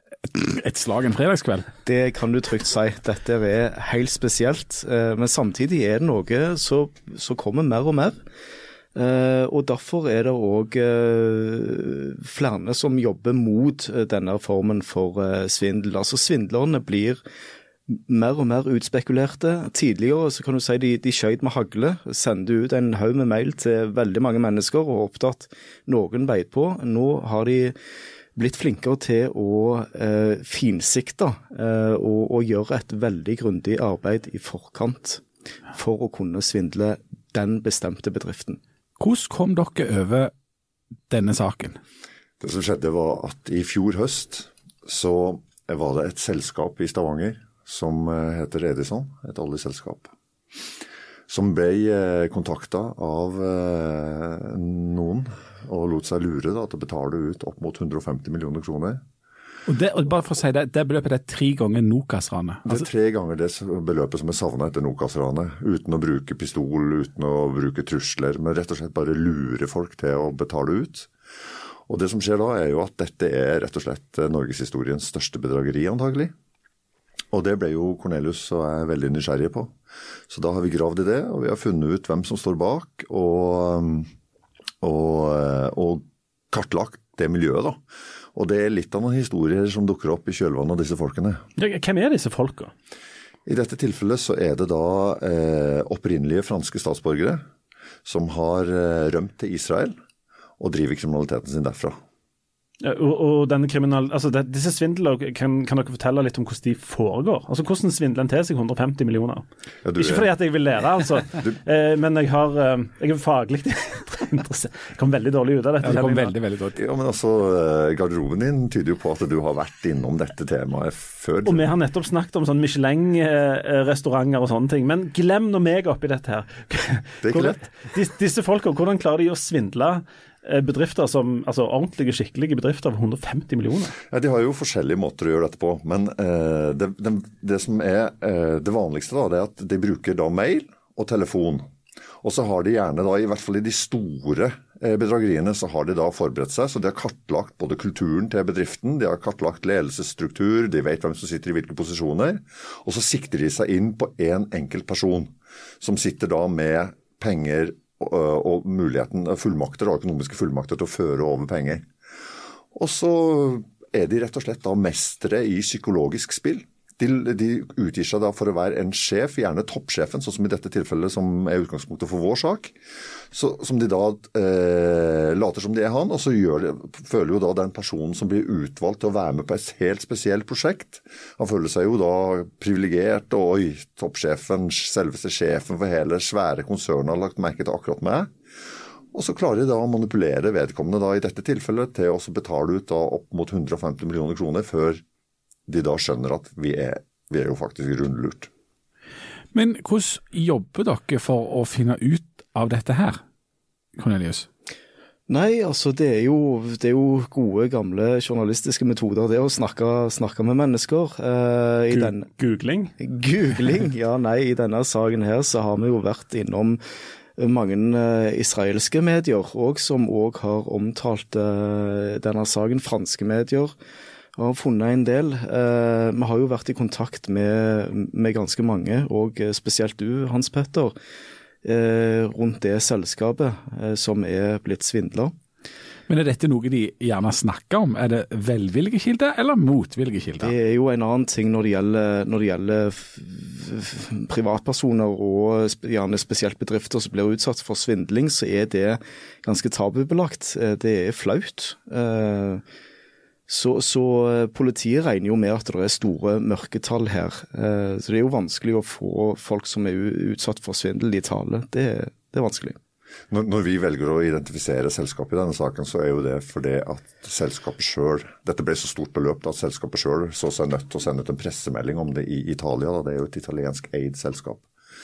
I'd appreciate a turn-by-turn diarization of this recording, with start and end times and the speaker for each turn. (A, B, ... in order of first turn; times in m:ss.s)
0:00.3-0:01.7 A
0:01.8-0:08.2 B
0:09.0-0:17.2 B
0:17.9-0:27.8 B
0:28.4-0:38.6 B
0:39.0-0:40.3 A
0:41.1-0:41.8 A
0:42.4-0:50.1 C
0:51.3-0:59.0 C
0:59.7-1:02.9 A
1:02.6-1:11.1 C
1:11.9-1:16.3 C
1:17.3-1:19.8 C
1:20.3-1:24.1 C
1:24.8-1:31.4 C
1:31.6-1:32.7 D
1:33.5-1:37.4 C
1:38.1-1:40.0 C
1:40.6-1:42.0 C
1:42.8-1:49.5 D
1:49.8-1:50.3 C
1:50.0-1:56.3 D
1:55.8-1:56.8 A
1:56.8-2:01.7 C
2:01.4-2:14.0 D
2:07.2-2:07.6 C
2:14.1-2:21.7 C
2:22.2-2:41.9 C
2:42.7-2:52.8 C
2:53.3-3:08.3 C
3:09.1-3:15.0 C
3:15.7-3:18.5 C
3:19.5-3:23.2 A
3:24.0-3:24.5 A
3:25.3-3:32.3 B
3:31.9-3:32.9 D
3:33.0-3:36.8 B
3:37.4-3:43.7 B
3:44.4-3:51.0 B
3:51.6-3:55.3 B
3:56.1-4:00.5 A
4:00.4-4:12.6 B
4:13.5-4:22.8 B
4:23.3-4:34.7 C